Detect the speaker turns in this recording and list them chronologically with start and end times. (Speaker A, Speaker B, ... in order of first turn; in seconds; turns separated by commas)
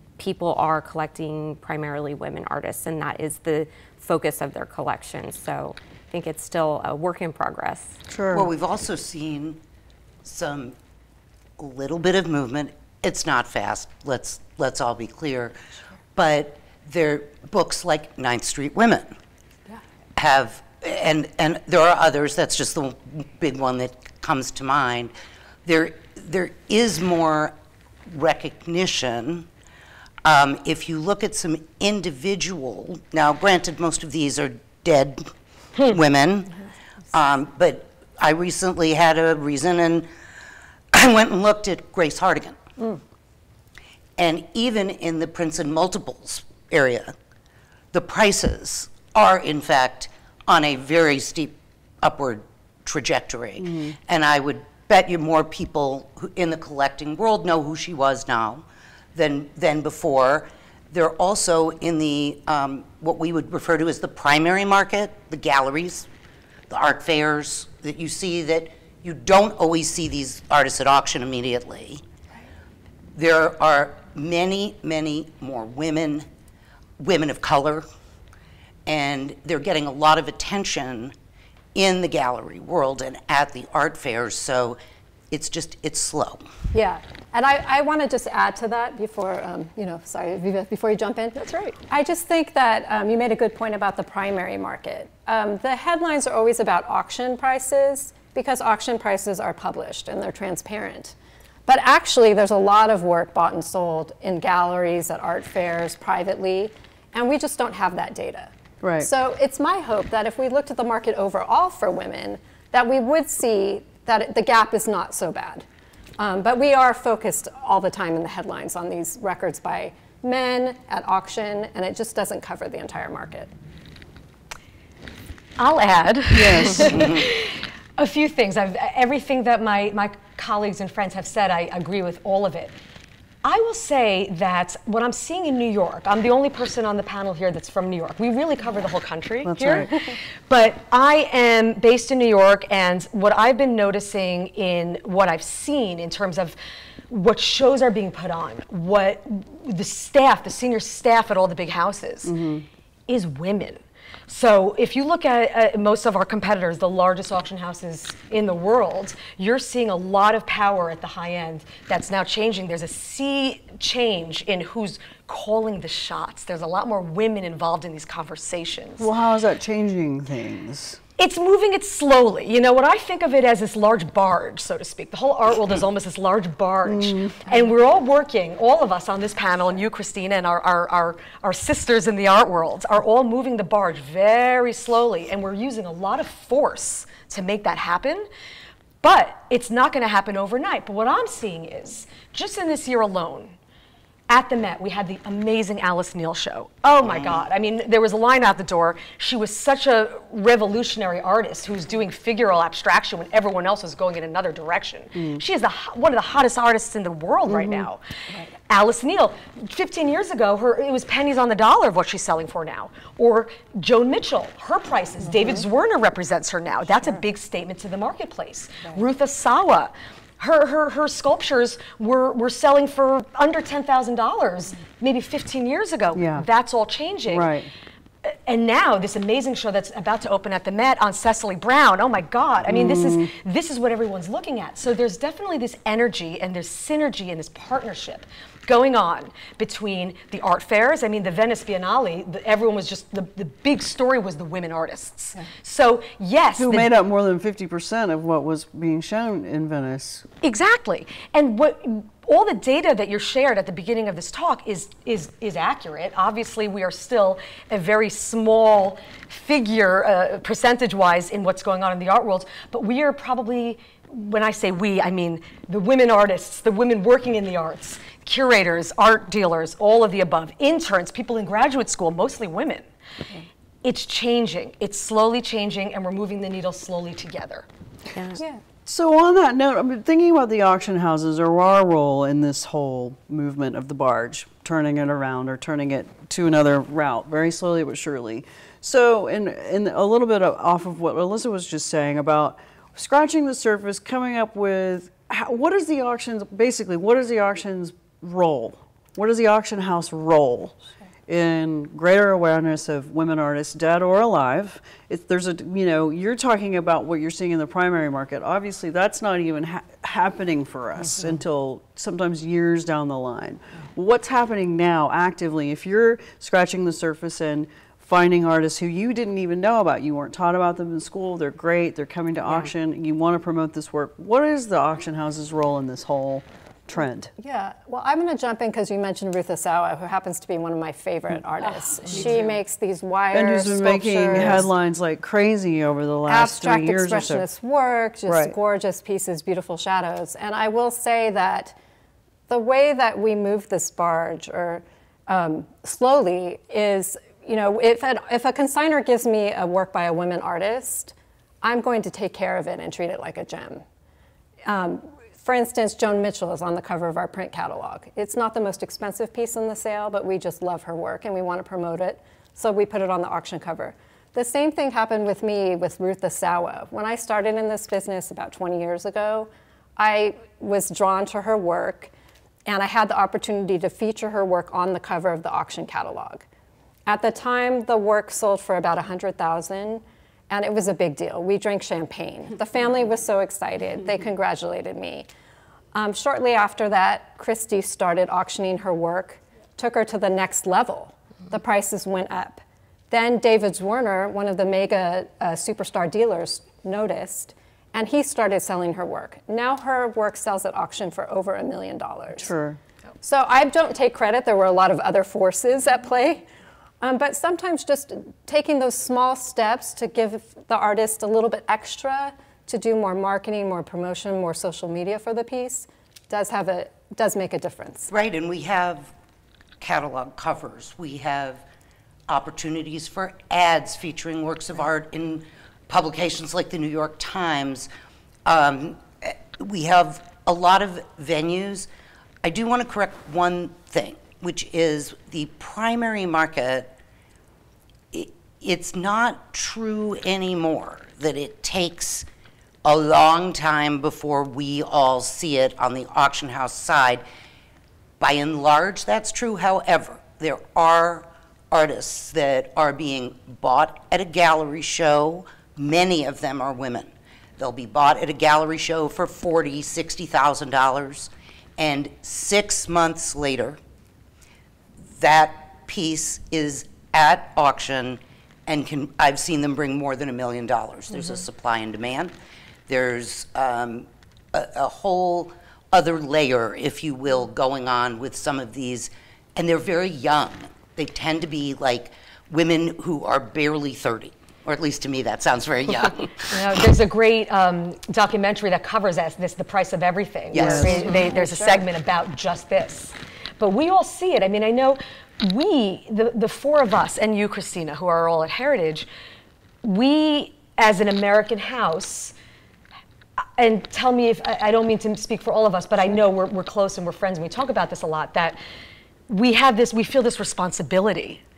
Speaker A: 0.2-8.0, Speaker B: 8.1-8.5, Speaker C: 8.3-9.6, Speaker C: 10.2-10.8, Speaker C: 11.6-15.6, Speaker C: 16.1-19.1, Speaker C: 20.2-25.1, Speaker C: 25.6-27.6, Speaker C: 28.1-29.5, Speaker C: 30.2-40.1, Speaker C: 40.9-42.6, Speaker C: 44.2-47.1, Speaker C: 47.9-58.6, Speaker B: 53.6-54.0, Speaker C: 59.1-66.1, Speaker C: 66.7-72.0, Speaker C: 73.2-76.3, Speaker C: 77.0-77.9, Speaker C: 78.9-81.1, Speaker C: 81.8-84.8, Speaker C: 85.3-86.5, Speaker D: 86.7-101.2, Speaker E: 91.4-91.8, Speaker D: 101.7-115.7, Speaker B: 108.8-109.1, Speaker D: 116.2-123.5, Speaker E: 125.6-132.7, Speaker B: 126.3-127.2, Speaker E: 133.4-146.6, Speaker B: 139.4-139.9, Speaker E: 147.1-152.3, Speaker B: 152.2-152.7, Speaker E: 153.1-169.1, Speaker B: 169.0-171.0, Speaker E: 171.2-188.3, Speaker B: 176.9-177.3, Speaker E: 189.0-193.6, Speaker E: 194.3-208.0, Speaker C: 197.0-197.4, Speaker B: 205.2-205.4, Speaker B: 207.5-207.9, Speaker E: 208.7-227.5, Speaker B: 226.1-226.4, Speaker B: 227.3-227.7, Speaker E: 228.2-246.9, Speaker B: 232.7-233.3, Speaker B: 246.6-250.3, Speaker E: 250.4-272.9, Speaker E: 273.8-277.7, Speaker B: 278.9-327.3, Speaker D: 327.4-334.7, Speaker B: 333.3-337.4, Speaker D: 336.3-341.8, Speaker B: 338.3-338.5, Speaker D: 342.5-353.8, Speaker D: 354.6-372.1, Speaker D: 372.7-376.4, Speaker D: 377.1-385.3, Speaker D: 385.9-402.5, Speaker B: 402.4-402.8, Speaker D: 403.2-406.5, Speaker D: 407.0-418.1, Speaker C: 418.1-419.1, Speaker C: 419.8-421.6, Speaker C: 422.3-427.9, Speaker C: 428.4-431.9, Speaker C: 432.4-436.9, Speaker C: 438.1-442.3, Speaker C: 442.9-447.2, Speaker C: 448.2-463.8, Speaker C: 465.1-472.4, Speaker C: 472.9-486.6, Speaker E: 486.5-499.1, Speaker C: 490.5-491.1, Speaker B: 490.6-491.1, Speaker D: 490.7-491.9, Speaker E: 499.8-502.4, Speaker E: 503.6-508.6, Speaker E: 509.3-511.4